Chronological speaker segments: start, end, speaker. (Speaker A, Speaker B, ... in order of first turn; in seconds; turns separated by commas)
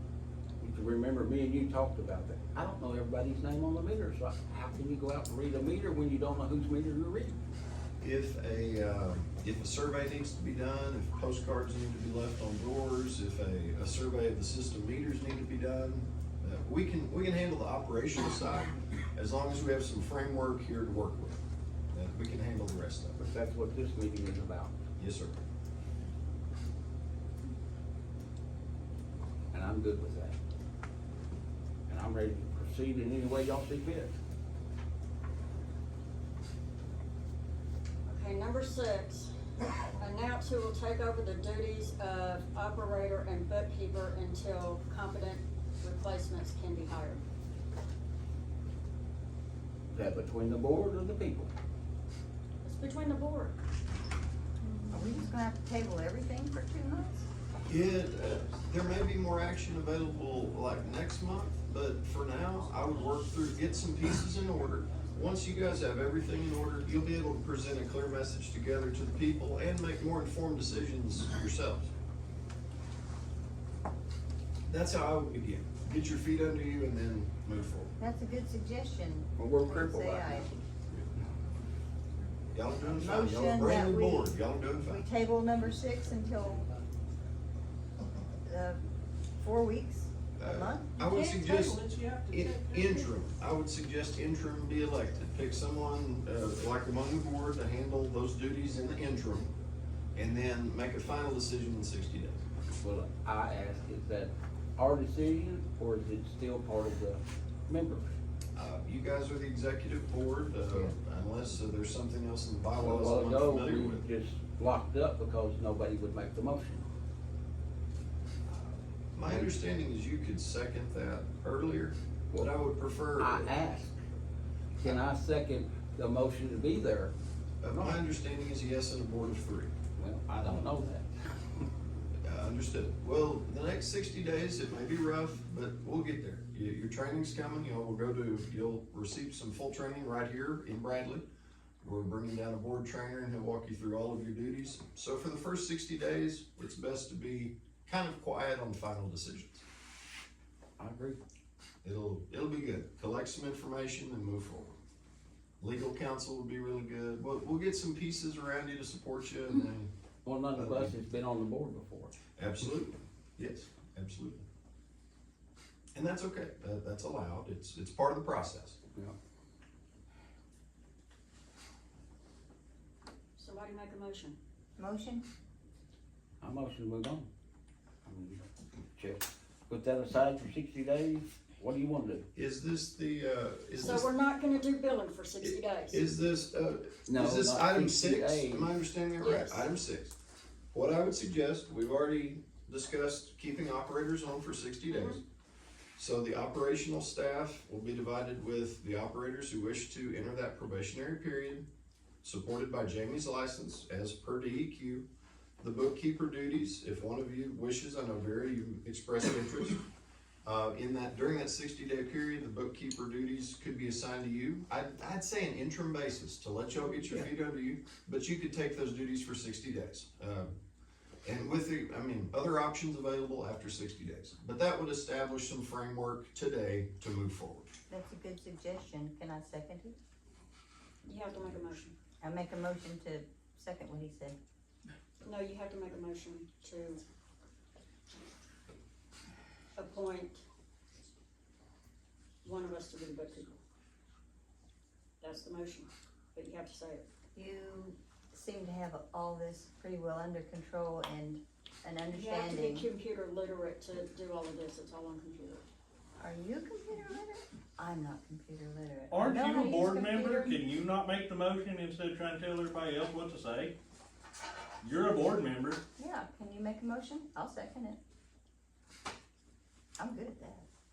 Speaker A: 0.6-7.4, Speaker B: 8.0-21.4, Speaker B: 21.9-23.2, Speaker A: 23.2-24.7, Speaker B: 25.0-25.4, Speaker A: 29.5-30.4, Speaker A: 31.9-34.1, Speaker C: 38.0-47.2, Speaker A: 49.9-51.5, Speaker C: 52.6-53.6, Speaker D: 54.8-57.3, Speaker B: 57.6-71.9, Speaker B: 74.7-77.9, Speaker D: 78.0-80.5, Speaker A: 79.4-80.6, Speaker B: 82.5-85.0, Speaker D: 82.9-86.7, Speaker D: 88.4-88.8, Speaker D: 89.4-90.9, Speaker B: 90.3-99.5, Speaker C: 91.0-91.8, Speaker B: 100.1-102.4, Speaker A: 102.8-108.1, Speaker B: 108.5-114.0, Speaker A: 112.8-116.8, Speaker B: 119.1-123.5, Speaker A: 119.2-119.5, Speaker A: 123.2-124.0, Speaker A: 124.8-127.1, Speaker B: 127.6-129.7, Speaker A: 127.7-128.0, Speaker A: 129.9-131.6, Speaker B: 132.2-141.2, Speaker B: 141.8-149.6, Speaker A: 150.8-151.2, Speaker B: 151.8-154.8, Speaker B: 155.6-159.9, Speaker A: 160.2-162.2, Speaker B: 160.5-161.0, Speaker B: 162.3-164.4, Speaker B: 165.9-168.8, Speaker C: 173.3-174.3, Speaker D: 174.8-175.2, Speaker A: 176.4-177.3, Speaker A: 178.0-178.4, Speaker A: 178.9-182.2, Speaker B: 182.3-184.1, Speaker C: 183.8-186.0, Speaker B: 185.4-190.1, Speaker A: 187.1-188.7, Speaker C: 189.2-189.6, Speaker B: 190.7-195.2, Speaker C: 194.9-195.2, Speaker B: 195.9-201.6, Speaker B: 202.2-205.1, Speaker B: 205.6-209.8, Speaker B: 210.4-220.5, Speaker B: 221.2-227.7, Speaker D: 227.9-230.0, Speaker C: 231.0-231.9, Speaker D: 232.2-234.4, Speaker C: 235.2-237.0, Speaker C: 239.8-240.4, Speaker C: 242.4-243.6, Speaker C: 245.2-247.0, Speaker D: 247.3-252.9, Speaker C: 252.1-255.6, Speaker D: 256.2-260.6, Speaker E: 259.1-263.8, Speaker E: 264.8-265.8, Speaker D: 266.0-268.0, Speaker D: 270.0-270.7